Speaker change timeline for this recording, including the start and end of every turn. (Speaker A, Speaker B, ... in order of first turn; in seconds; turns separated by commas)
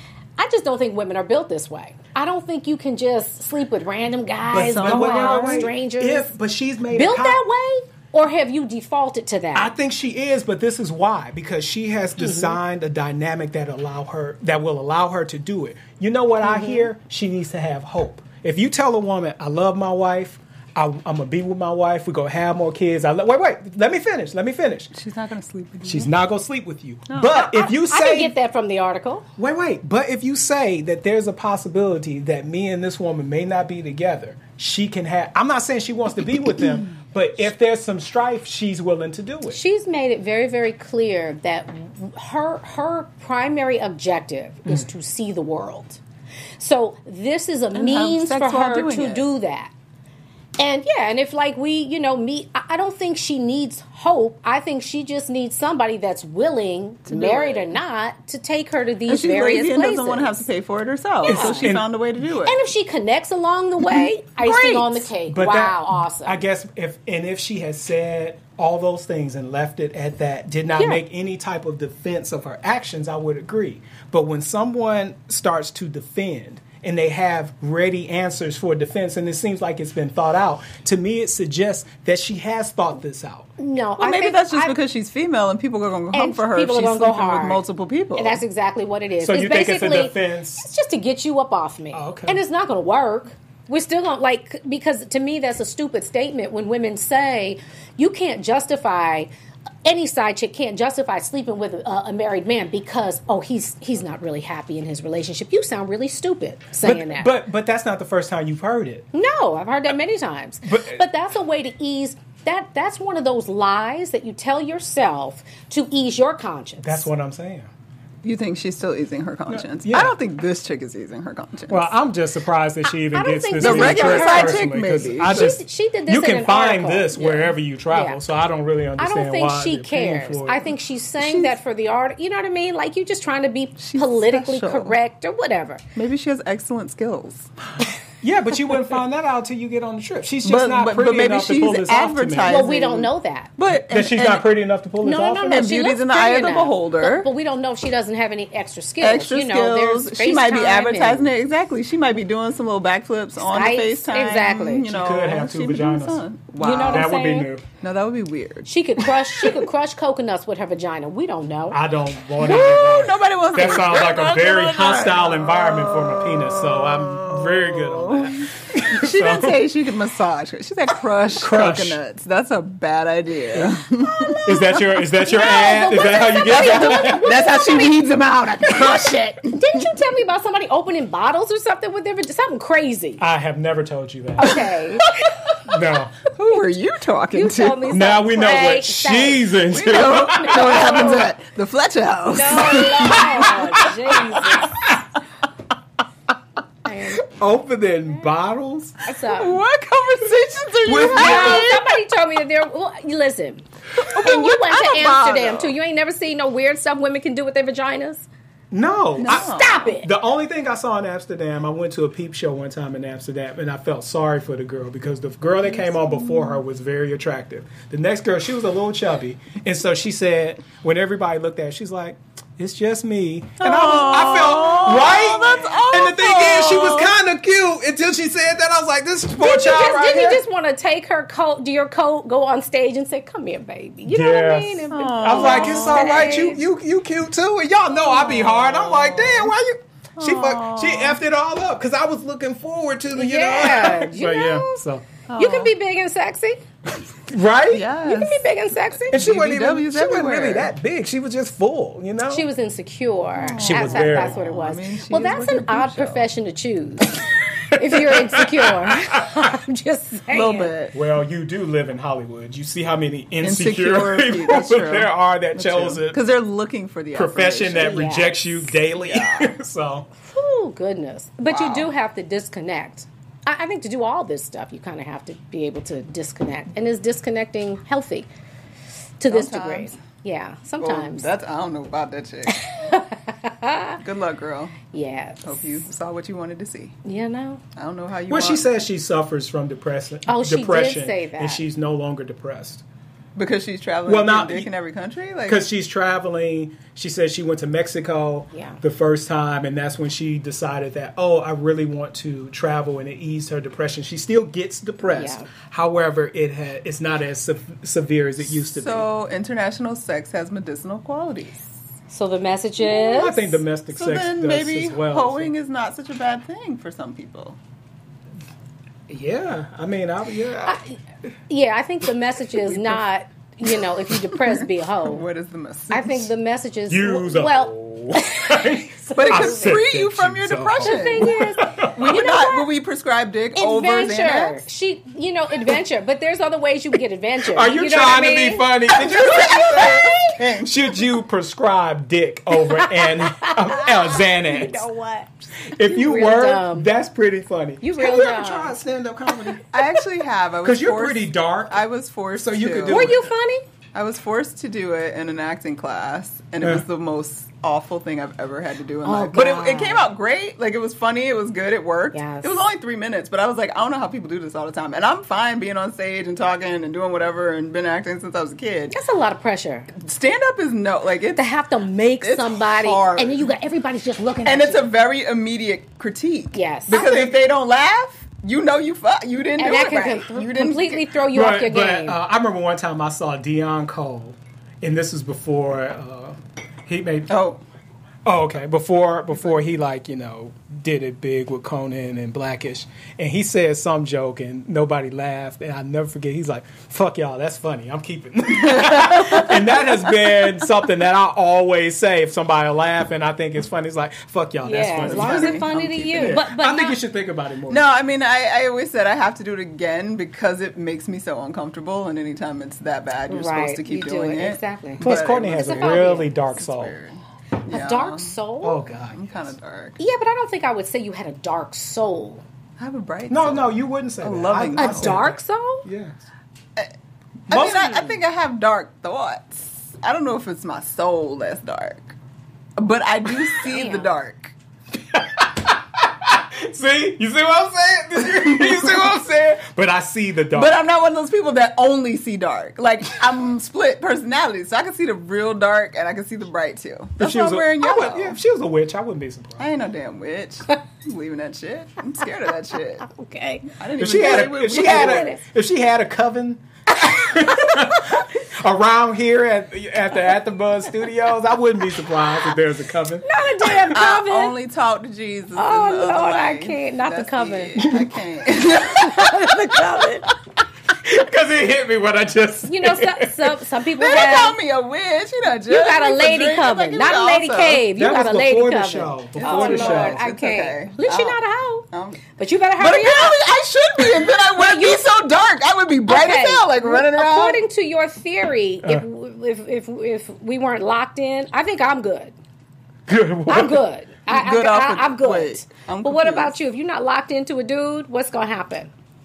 Speaker A: 0.4-6.3, Speaker B: 4.5-7.4, Speaker C: 4.5-5.7, Speaker A: 6.9-9.7, Speaker B: 9.6-24.9, Speaker A: 12.2-12.6, Speaker A: 16.4-16.9, Speaker C: 24.9-26.1, Speaker B: 25.8-28.3, Speaker C: 27.1-27.4, Speaker A: 27.3-29.2, Speaker B: 29.4-39.6, Speaker A: 39.5-46.0, Speaker A: 46.6-49.7, Speaker C: 47.7-49.3, Speaker A: 50.6-60.5, Speaker C: 57.1-57.7, Speaker C: 59.1-62.6, Speaker B: 61.2-61.9, Speaker A: 61.3-61.8, Speaker A: 62.4-66.4, Speaker C: 64.0-65.1, Speaker B: 65.3-83.5, Speaker A: 83.6-84.8, Speaker C: 84.0-88.4, Speaker A: 86.1-87.6, Speaker A: 88.2-99.3, Speaker B: 89.2-90.6, Speaker B: 91.9-92.4, Speaker A: 99.8-107.3, Speaker B: 106.8-109.1, Speaker A: 109.1-117.1, Speaker B: 110.7-111.0, Speaker B: 116.8-117.7, Speaker C: 118.2-121.9, Speaker B: 119.5-120.2, Speaker B: 121.7-130.7, Speaker A: 123.1-127.2, Speaker C: 123.6-125.6, Speaker C: 127.2-127.5, Speaker A: 127.9-128.2, Speaker A: 129.0-135.8, Speaker C: 131.2-131.5, Speaker C: 133.8-134.9, Speaker C: 136.0-137.5, Speaker B: 138.2-142.6, Speaker C: 140.4-144.5, Speaker A: 142.5-143.5, Speaker B: 143.7-145.6, Speaker A: 145.0-151.3, Speaker C: 145.5-147.3, Speaker C: 149.0-157.2, Speaker A: 153.4-154.9, Speaker B: 154.9-156.2, Speaker A: 156.6-157.5, Speaker B: 156.8-157.7, Speaker C: 157.8-159.7, Speaker A: 158.7-161.8, Speaker B: 161.7-169.7, Speaker C: 162.4-174.4, Speaker B: 171.4-172.0, Speaker A: 174.0-178.0, Speaker B: 174.4-177.3, Speaker C: 175.5-179.8, Speaker A: 179.5-183.2, Speaker B: 183.2-184.7, Speaker A: 184.4-185.1, Speaker B: 185.7-186.2, Speaker C: 186.3-187.9, Speaker A: 187.3-189.6, Speaker B: 187.9-191.2, Speaker C: 189.7-194.2, Speaker A: 190.2-191.3, Speaker A: 192.3-194.7, Speaker A: 196.8-197.2, Speaker B: 197.2-199.0, Speaker A: 199.1-199.6, Speaker C: 199.1-201.9, Speaker B: 200.9-201.8, Speaker A: 200.9-208.3, Speaker C: 204.0-205.7, Speaker B: 208.7-230.4, Speaker C: 209.2-209.9, Speaker A: 209.2-210.1, Speaker C: 216.0-216.6, Speaker C: 223.6-227.1, Speaker A: 229.4-236.6, Speaker B: 234.1-245.1, Speaker C: 234.9-236.2, Speaker C: 238.1-239.5, Speaker C: 240.2-241.2, Speaker A: 243.1-244.8, Speaker C: 245.3-245.7, Speaker A: 245.4-246.6, Speaker B: 247.3-247.9, Speaker C: 247.7-248.5, Speaker A: 248.0-249.2, Speaker B: 249.1-252.5, Speaker C: 249.1-250.7, Speaker A: 252.3-260.7, Speaker C: 253.3-256.3, Speaker B: 253.6-254.4, Speaker B: 257.8-259.4, Speaker C: 260.3-260.9, Speaker B: 260.9-266.2, Speaker C: 263.4-268.1, Speaker B: 267.1-270.1, Speaker A: 267.8-268.6, Speaker C: 268.9-269.5, Speaker A: 270.3-278.3, Speaker C: 271.5-271.9, Speaker A: 279.2-281.3, Speaker C: 279.3-279.9, Speaker C: 280.8-282.6, Speaker A: 282.5-284.0, Speaker C: 284.0-284.8, Speaker A: 284.9-285.6, Speaker C: 285.4-287.0, Speaker A: 287.1-287.6, Speaker C: 287.8-288.7, Speaker B: 288.3-292.8, Speaker A: 290.3-291.6, Speaker C: 293.4-295.6, Speaker B: 294.1-294.7, Speaker B: 295.5-309.1, Speaker A: 298.5-298.8, Speaker A: 305.1-305.5, Speaker C: 308.6-311.7, Speaker A: 312.1-313.6, Speaker B: 312.8-315.5, Speaker C: 313.9-317.6, Speaker B: 319.1-320.8, Speaker A: 320.6-320.9, Speaker A: 321.5-325.2, Speaker C: 322.7-323.0, Speaker C: 324.1-326.3, Speaker A: 325.9-329.8, Speaker B: 326.9-331.9, Speaker C: 329.2-331.4, Speaker A: 330.8-332.7, Speaker C: 331.9-334.6, Speaker A: 333.6-340.4, Speaker B: 337.5-344.9, Speaker C: 338.9-340.7, Speaker A: 342.6-346.9, Speaker B: 345.7-349.6, Speaker A: 347.8-348.8, Speaker C: 349.7-353.2, Speaker B: 350.6-351.8, Speaker B: 352.4-353.3, Speaker A: 352.9-353.6, Speaker C: 353.9-368.9, Speaker A: 359.0-360.1, Speaker A: 362.1-362.6, Speaker A: 368.9-369.9, Speaker C: 370.0-371.4, Speaker A: 371.4-374.9, Speaker C: 372.2-373.5, Speaker C: 374.4-381.1, Speaker A: 376.5-377.2, Speaker B: 376.9-377.4, Speaker A: 379.6-382.2, Speaker B: 381.3-387.4, Speaker C: 387.3-387.6, Speaker B: 388.2-407.9, Speaker C: 398.6-399.5, Speaker A: 399.2-399.5, Speaker A: 404.6-407.0, Speaker C: 405.0-406.4, Speaker C: 407.7-418.4, Speaker A: 413.3-416.3, Speaker B: 415.0-416.9, Speaker A: 417.6-418.8, Speaker B: 418.6-419.4, Speaker C: 419.1-420.0, Speaker A: 420.0-422.4, Speaker C: 422.8-425.2, Speaker B: 423.3-426.2, Speaker A: 424.8-425.9, Speaker C: 427.5-432.1, Speaker B: 427.5-428.1, Speaker A: 427.7-428.1, Speaker C: 432.8-434.5, Speaker A: 433.6-434.1, Speaker B: 435.1-440.8, Speaker C: 438.4-439.1, Speaker C: 440.5-448.4, Speaker B: 447.2-449.7, Speaker C: 449.6-453.1, Speaker A: 453.0-455.4, Speaker C: 453.8-455.4, Speaker B: 454.0-464.0, Speaker A: 463.2-464.6, Speaker C: 463.9-469.8, Speaker A: 465.6-467.9, Speaker B: 467.8-468.1, Speaker A: 468.7-470.3, Speaker B: 470.9-473.6, Speaker A: 472.7-474.6, Speaker C: 474.0-477.8, Speaker A: 475.7-483.4, Speaker B: 477.9-480.2, Speaker C: 479.4-481.4, Speaker C: 481.9-482.2, Speaker C: 482.8-487.6, Speaker A: 484.6-485.2, Speaker A: 486.1-492.4, Speaker B: 493.1-493.8, Speaker A: 493.5-498.9, Speaker C: 494.3-496.5